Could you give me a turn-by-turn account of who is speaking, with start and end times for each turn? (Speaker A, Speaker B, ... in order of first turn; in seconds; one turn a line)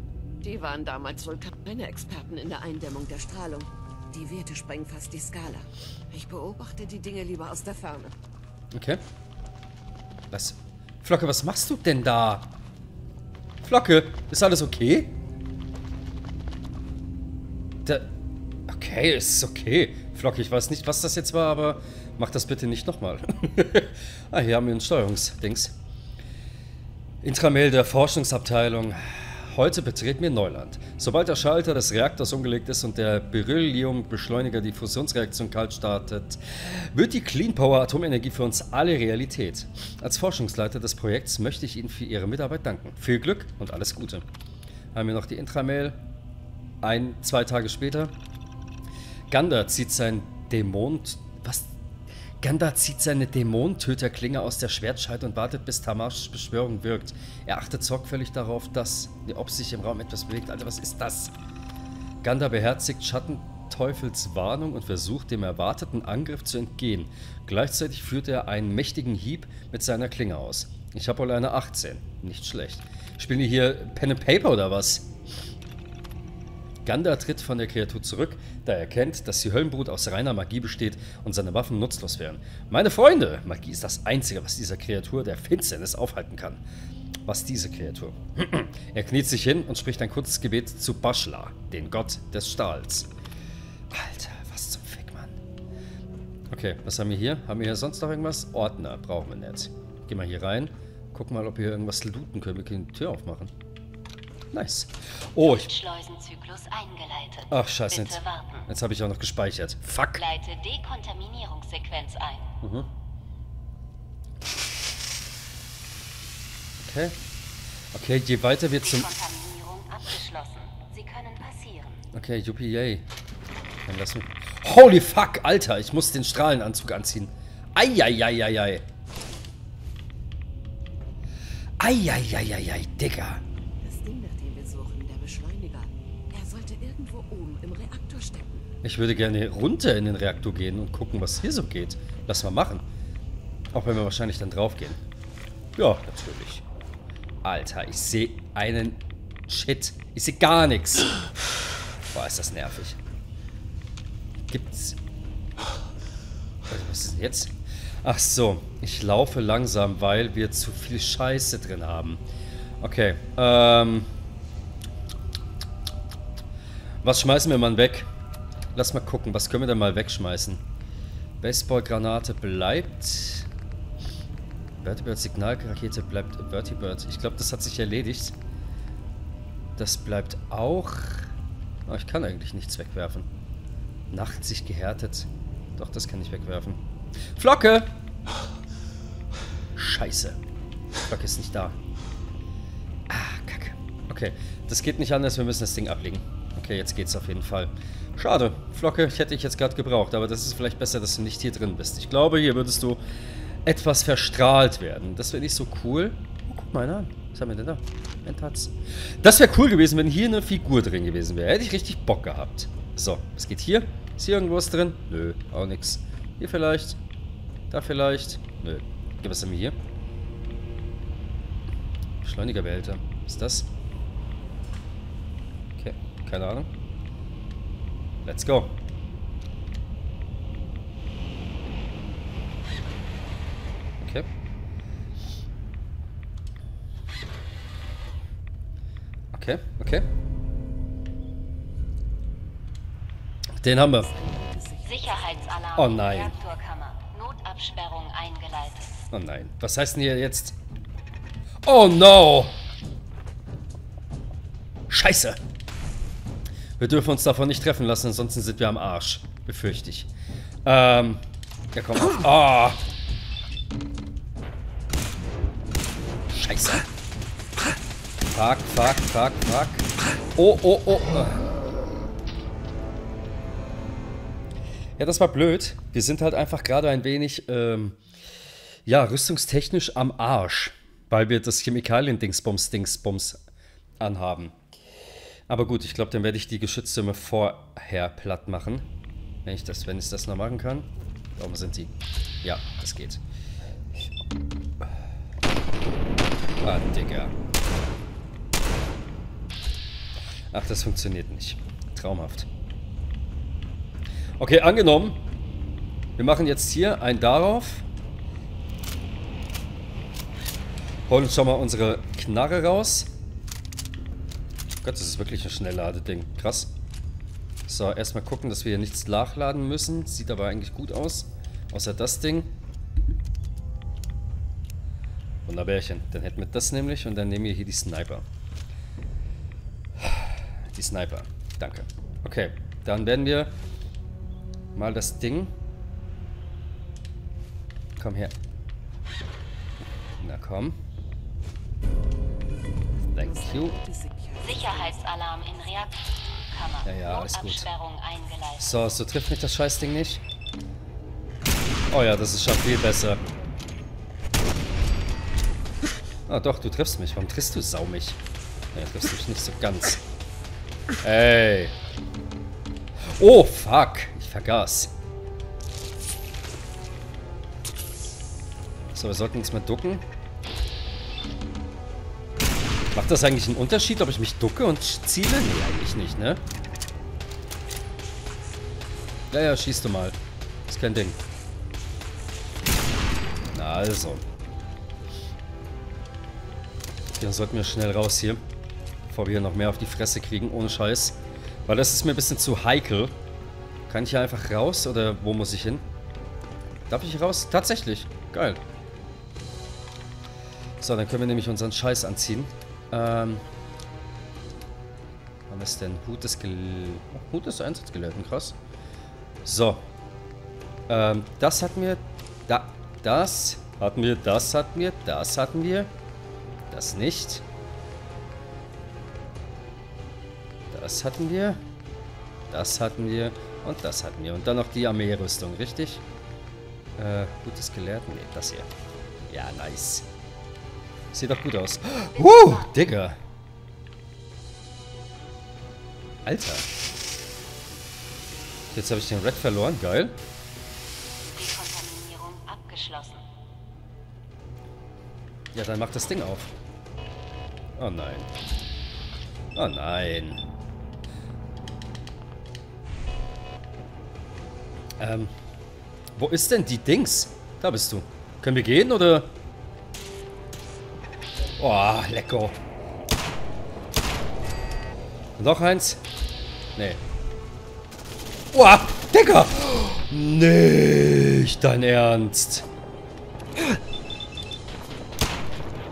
Speaker A: 0.4-8.1
Speaker B: 8.7-9.0
Speaker B: 10.3-12.5
Speaker B: 13.6-15.1
Speaker B: 17.8-18.1
Speaker B: 18.7-25.7
Speaker B: 27.2-44.2
Speaker B: 44.9-46.0
Speaker B: 46.8-48.1
Speaker B: 49.3-51.7
Speaker B: 52.4-61.3
Speaker B: 62.2-75.1
Speaker B: 76.8-86.6
Speaker B: 87.3-93.1
Speaker B: 93.9-95.4
Speaker B: 96.5-103.5
Speaker B: 104.5-105.7
Speaker C: 105.4-108.7
Speaker B: 107.5-110.2
Speaker C: 110.2-112.5
Speaker B: 112.6-112.9
Speaker B: 116.8-117.2
Speaker B: 117.9-119.1
Speaker C: 118.8-122.0
Speaker B: 122.1-123.1
Speaker B: 123.9-128.8
Speaker B: 131.8-133.4
Speaker A: 133.8-138.7
Speaker B: 138.8-142.8
Speaker B: 143.7-145.0
Speaker B: 145.8-146.6
Speaker B: 147.4-151.2
Speaker B: 152.1-153.0
Speaker B: 154.5-155.0
Speaker B: 156.7-162.2
Speaker B: 162.8-164.1
Speaker B: 167.0-168.1
Speaker B: 168.8-170.6
Speaker B: 171.4-173.5
Speaker B: 174.8-178.3
Speaker B: 179.8-181.3
Speaker B: 181.9-183.3
Speaker B: 184.1-186.8
Speaker B: 187.3-187.9
Speaker B: 189.8-190.4
Speaker B: 191.1-191.8
Speaker B: 193.1-203.0
Speaker B: 203.7-217.0
Speaker B: 217.7-219.8
Speaker B: 222.2-223.7
Speaker B: 225.8-226.7
Speaker B: 228.2-228.8
Speaker B: 234.0-234.3
Speaker B: 239.3-240.1
Speaker B: 243.6-244.1
Speaker A: 243.9-245.9
Speaker C: 244.8-249.0
Speaker B: 245.8-246.3
Speaker B: 249.1-250.6
Speaker B: 251.7-252.6
Speaker B: 254.9-255.4
Speaker B: 256.8-260.1
Speaker B: 260.6-261.2
Speaker B: 261.8-262.8
Speaker B: 266.3-266.9
Speaker B: 268.3-271.4
Speaker B: 275.0-278.0
Speaker B: 278.9-283.4
Speaker B: 284.0-284.6
Speaker B: 285.5-288.9
Speaker B: 289.4-293.2
Speaker B: 296.6-297.3
Speaker B: 300.5-302.5
Speaker B: 304.4-305.2
Speaker B: 306.2-307.9
Speaker B: 311.1-313.1
Speaker B: 314.8-316.7
Speaker B: 317.7-322.5
Speaker B: 325.5-328.2
Speaker B: 330.0-333.5
Speaker B: 334.8-335.5
Speaker B: 338.0-338.3
Speaker B: 340.2-340.8
Speaker A: 343.1-345.1
Speaker B: 343.1-343.8
Speaker C: 344.4-348.9
Speaker B: 346.8-347.7
Speaker B: 348.6-350.2
Speaker B: 351.9-353.2
Speaker B: 356.3-358.2
Speaker B: 358.7-360.0
Speaker B: 361.0-361.8
Speaker B: 363.1-364.9
Speaker B: 368.9-370.1
Speaker B: 372.9-376.4
Speaker B: 379.3-381.2
Speaker B: 383.5-384.2
Speaker B: 387.1-388.4
Speaker B: 389.1-393.1
Speaker B: 393.9-395.8
Speaker B: 396.9-398.6
Speaker B: 400.8-403.4
Speaker B: 405.5-408.6
Speaker B: 409.4-409.9
Speaker B: 410.9-415.9
Speaker B: 416.7-417.4
Speaker B: 420.7-421.6
Speaker B: 422.5-426.0
Speaker B: 427.0-428.7
Speaker B: 429.3-430.1
Speaker B: 431.1-433.2
Speaker C: 432.1-432.9
Speaker B: 436.3-436.7
Speaker B: 438.7-440.2
Speaker C: 441.3-443.2
Speaker B: 445.5-446.5
Speaker B: 447.8-448.3
Speaker B: 449.6-450.4
Speaker B: 455.0-455.3
Speaker B: 456.2-459.3
Speaker B: 461.6-462.6
Speaker B: 465.4-466.0
Speaker B: 466.8-467.0
Speaker B: 468.5-472.7